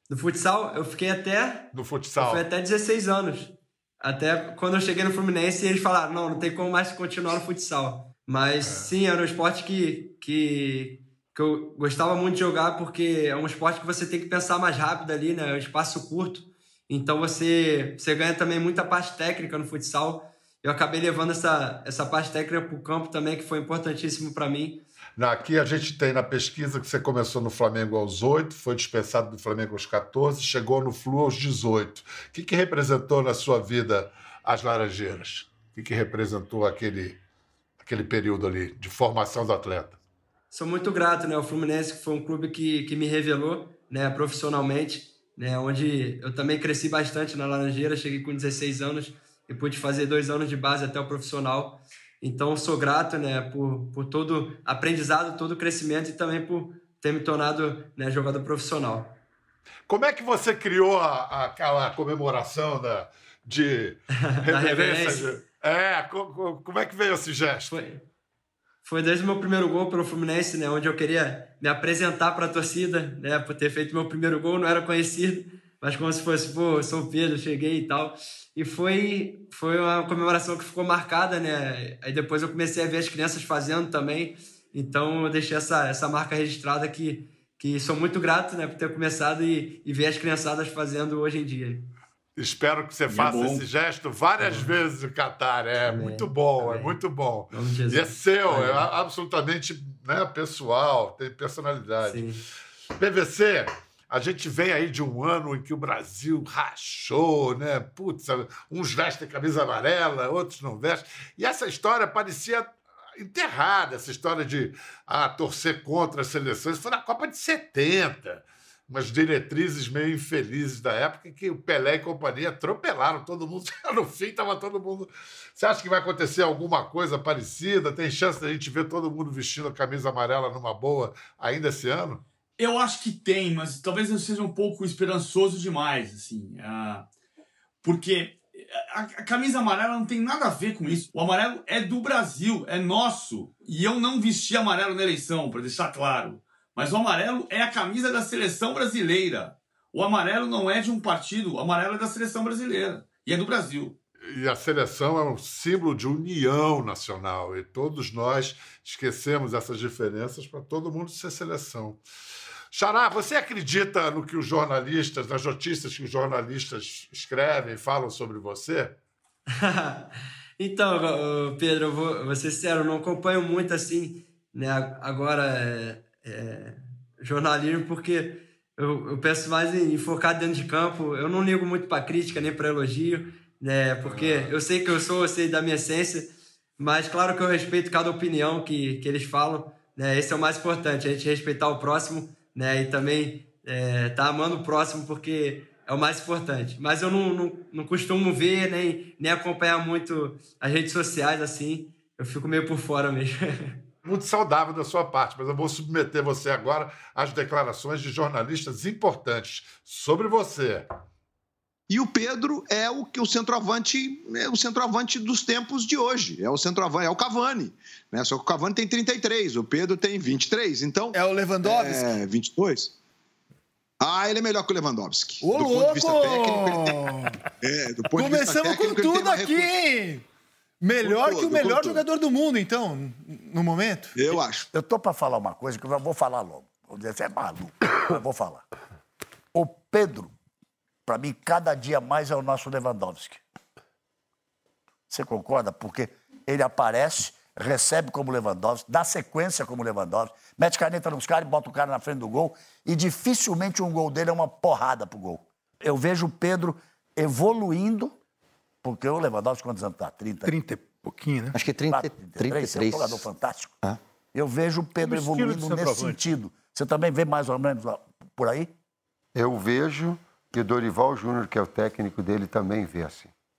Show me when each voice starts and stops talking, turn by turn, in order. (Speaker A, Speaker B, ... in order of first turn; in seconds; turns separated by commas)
Speaker A: 0.1-24.9, Speaker B: 1.7-2.4, Speaker B: 8.6-8.9, Speaker B: 25.2-37.2, Speaker B: 37.8-40.0, Speaker A: 40.5-59.2, Speaker B: 59.9-67.8, Speaker A: 64.3-65.4, Speaker A: 67.7-68.0, Speaker A: 68.8-91.9, Speaker B: 92.4-102.2, Speaker C: 93.1-93.6, Speaker A: 94.4-94.7, Speaker A: 95.8-98.9, Speaker A: 102.0-102.4, Speaker B: 103.0-132.2, Speaker C: 132.6-137.1, Speaker C: 137.8-153.9, Speaker B: 154.2-162.0, Speaker B: 162.7-169.0, Speaker A: 169.5-203.8, Speaker B: 184.0-184.5, Speaker B: 204.0-210.9, Speaker D: 211.9-223.0, Speaker E: 221.1-222.1, Speaker D: 224.0-229.7, Speaker E: 225.4-227.4, Speaker E: 228.1-230.2, Speaker E: 230.8-234.3, Speaker D: 231.0-232.1, Speaker D: 234.1-234.7, Speaker F: 234.7-238.7, Speaker F: 239.5-240.3, Speaker F: 241.1-243.4, Speaker F: 245.1-258.1, Speaker F: 258.8-260.6, Speaker E: 260.4-261.6, Speaker G: 261.5-263.1, Speaker F: 261.9-263.8, Speaker F: 264.3-268.7, Speaker E: 265.0-266.2, Speaker G: 269.3-273.3